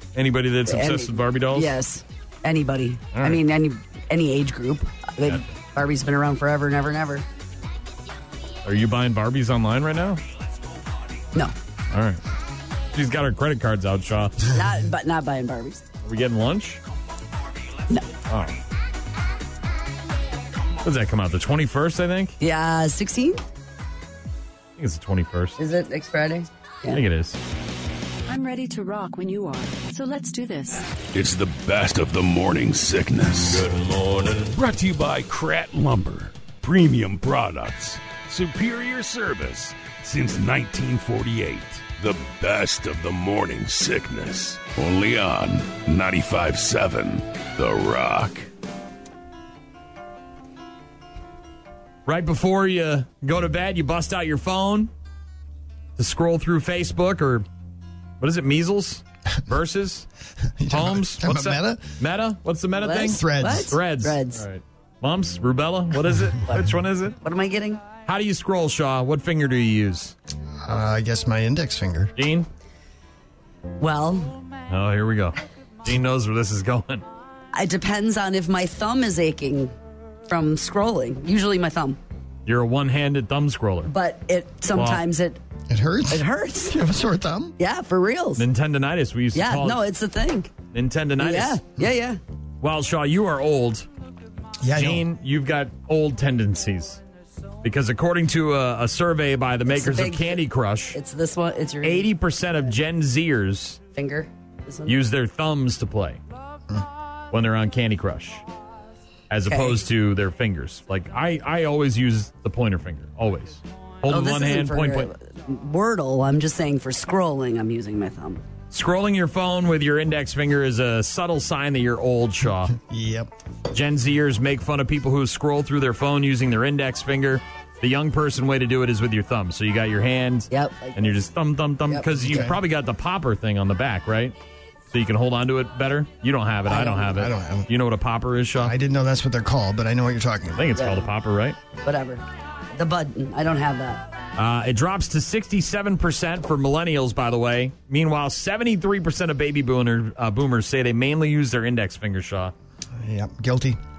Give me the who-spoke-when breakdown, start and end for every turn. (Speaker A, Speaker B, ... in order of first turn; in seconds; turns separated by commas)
Speaker A: 0.1-1.7, Speaker B: 0.7-7.2, Speaker A: 3.1-3.4, Speaker A: 8.6-10.2, Speaker A: 11.9-12.2, Speaker A: 12.9-14.5, Speaker B: 14.5-15.9, Speaker A: 16.0-16.8, Speaker A: 18.3-18.6, Speaker A: 20.8-22.4, Speaker B: 22.4-23.4, Speaker A: 24.8-25.6, Speaker B: 25.6-27.0, Speaker A: 26.9-27.4, Speaker C: 28.3-30.9, Speaker D: 31.1-48.5, Speaker A: 52.1-54.9, Speaker A: 56.0-57.5, Speaker A: 58.2-60.1, Speaker E: 60.6-61.9, Speaker A: 60.7-67.2, Speaker B: 62.8-64.4, Speaker E: 63.0-63.8, Speaker B: 67.2-67.8, Speaker A: 68.0-70.2, Speaker E: 70.6-72.1, Speaker A: 72.2-72.5, Speaker B: 73.8-74.4, Speaker A: 74.7-77.0, Speaker B: 77.5-79.7, Speaker B: 80.3-82.0, Speaker A: 82.5-83.9, Speaker B: 83.9-85.4, Speaker A: 84.7-85.0, Speaker E: 85.7-87.5, Speaker B: 86.1-86.8, Speaker B: 87.6-88.4, Speaker A: 88.4-89.8, Speaker B: 89.3-90.5, Speaker A: 90.7-91.6, Speaker B: 91.2-92.2, Speaker A: 92.6-93.9, Speaker E: 94.6-95.1, Speaker A: 94.7-97.0, Speaker A: 97.6-101.0, Speaker B: 99.7-102.1, Speaker A: 101.8-103.8, Speaker B: 103.9-104.9, Speaker A: 104.9-106.2, Speaker A: 107.3-108.4, Speaker A: 109.3-115.1, Speaker B: 109.5-109.8, Speaker B: 114.1-118.4, Speaker A: 118.7-122.7, Speaker E: 122.7-123.3, Speaker A: 123.7-134.3, Speaker B: 130.5-131.2, Speaker E: 132.2-132.6, Speaker A: 134.9-138.7, Speaker B: 136.7-137.2, Speaker E: 137.1-137.7, Speaker E: 138.6-140.7, Speaker A: 140.6-141.6, Speaker B: 140.8-141.1, Speaker B: 141.8-142.2, Speaker B: 142.8-144.0, Speaker A: 144.4-152.5, Speaker E: 153.0-153.8